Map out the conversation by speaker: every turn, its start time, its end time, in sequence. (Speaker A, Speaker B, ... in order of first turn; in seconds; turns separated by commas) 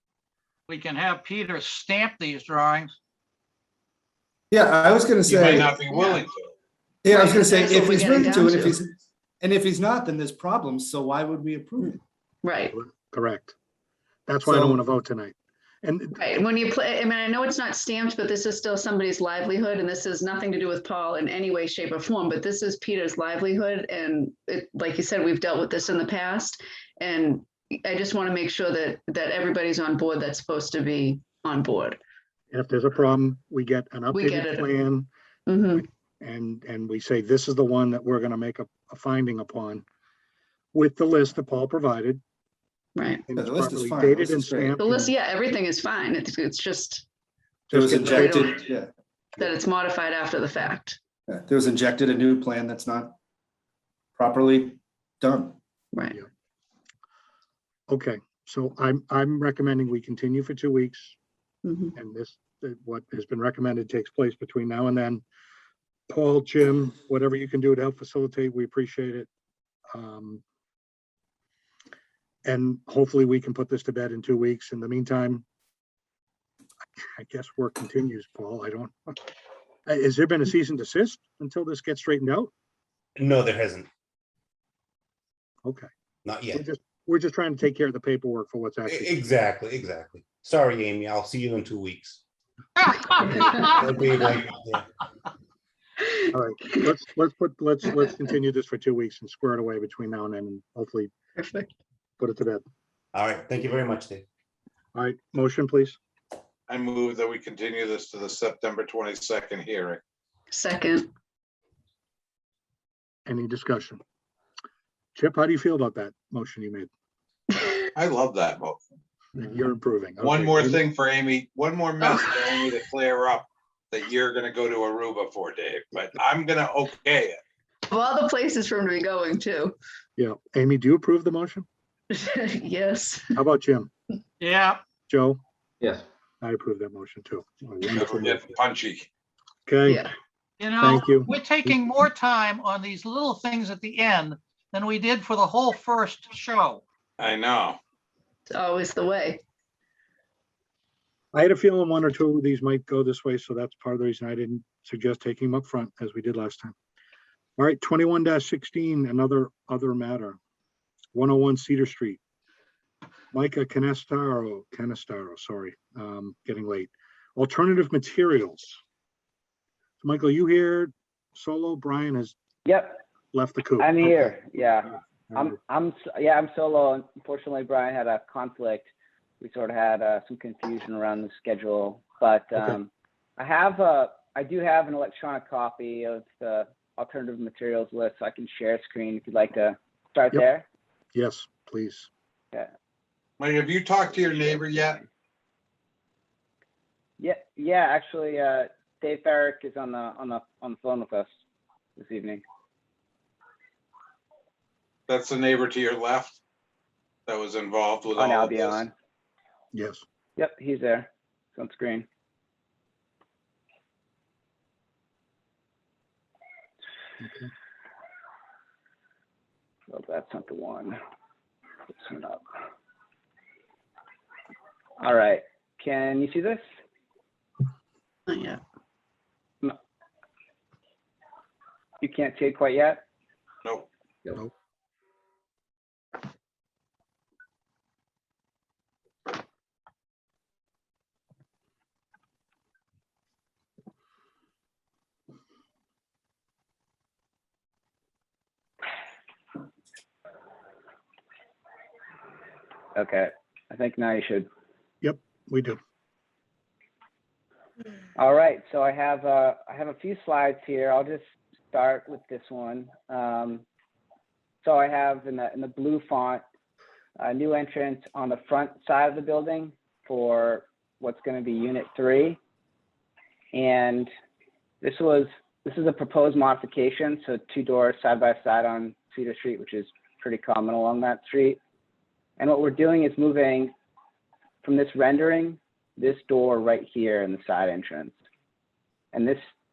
Speaker A: 0.7-2.9, Speaker B: 4.5-5.8, Speaker C: 5.3-6.5, Speaker D: 5.9-6.2, Speaker B: 7.0-12.0, Speaker D: 7.1-8.8, Speaker D: 12.4-12.8, Speaker E: 12.7-13.6, Speaker E: 14.3-16.3, Speaker B: 14.5-14.8, Speaker D: 16.2-32.0, Speaker E: 32.5-35.1, Speaker D: 34.1-34.7, Speaker D: 35.5-35.9, Speaker E: 35.8-39.9, Speaker E: 40.7-42.2, Speaker D: 43.0-43.3, Speaker E: 43.3-45.1, Speaker B: 43.3-44.8, Speaker D: 44.8-47.1, Speaker E: 47.7-48.5, Speaker B: 47.7-48.9, Speaker D: 48.1-48.6, Speaker D: 49.4-51.0, Speaker B: 51.3-53.2, Speaker B: 54.2-55.6, Speaker D: 55.9-56.2, Speaker E: 57.9-61.2, Speaker D: 61.6-61.9, Speaker E: 62.0-65.2, Speaker E: 66.1-69.3, Speaker E: 69.9-70.4, Speaker E: 72.5-75.5, Speaker E: 77.2-79.2, Speaker E: 79.9-82.5, Speaker F: 83.2-83.9, Speaker E: 85.6-85.9, Speaker F: 86.2-86.6, Speaker E: 86.5-89.2, Speaker F: 88.9-92.2, Speaker A: 92.8-93.8, Speaker F: 93.2-94.9, Speaker E: 96.3-101.1, Speaker D: 101.4-101.7, Speaker E: 102.2-102.6, Speaker F: 103.1-104.2, Speaker E: 105.0-106.0, Speaker C: 106.7-110.0, Speaker D: 110.5-111.1, Speaker E: 113.3-114.0, Speaker E: 115.2-116.9, Speaker C: 118.0-118.8, Speaker E: 119.3-120.8, Speaker C: 120.2-127.4, Speaker D: 122.2-122.5, Speaker D: 127.9-129.8, Speaker E: 130.2-131.7, Speaker D: 132.1-133.4, Speaker E: 133.3-133.9, Speaker A: 134.4-134.8, Speaker E: 135.1-135.4, Speaker E: 136.4-138.4, Speaker C: 137.9-139.1, Speaker E: 139.7-140.1, Speaker D: 139.9-140.1, Speaker A: 140.6-146.8, Speaker E: 140.8-141.3, Speaker C: 147.2-147.8, Speaker D: 148.5-149.4, Speaker E: 151.3-156.8, Speaker E: 157.6-160.4, Speaker E: 161.1-162.2, Speaker E: 163.3-168.8, Speaker E: 170.0-172.3, Speaker G: 172.7-173.0, Speaker E: 173.3-174.4, Speaker G: 173.8-178.9, Speaker E: 175.3-175.6, Speaker G: 179.4-190.7, Speaker E: 191.1-192.1, Speaker C: 193.4-195.0, Speaker G: 194.0-195.1, Speaker G: 197.2-201.3, Speaker G: 202.0-202.4, Speaker C: 205.1-206.4, Speaker C: 207.3-208.8, Speaker G: 208.2-208.9, Speaker E: 209.7-210.0, Speaker G: 210.4-212.1, Speaker E: 217.2-217.5, Speaker G: 219.9-221.0, Speaker G: 221.9-222.4, Speaker G: 225.0-226.6, Speaker D: 228.3-228.6, Speaker G: 232.0-233.0, Speaker G: 252.9-254.5, Speaker E: 255.0-255.8, Speaker G: 258.2-263.6, Speaker G: 264.6-266.4, Speaker G: 267.2-272.4, Speaker G: 273.5-274.1, Speaker G: 274.8-281.6, Speaker G: 282.4-283.7, Speaker G: 284.6-288.1, Speaker G: 289.1-289.4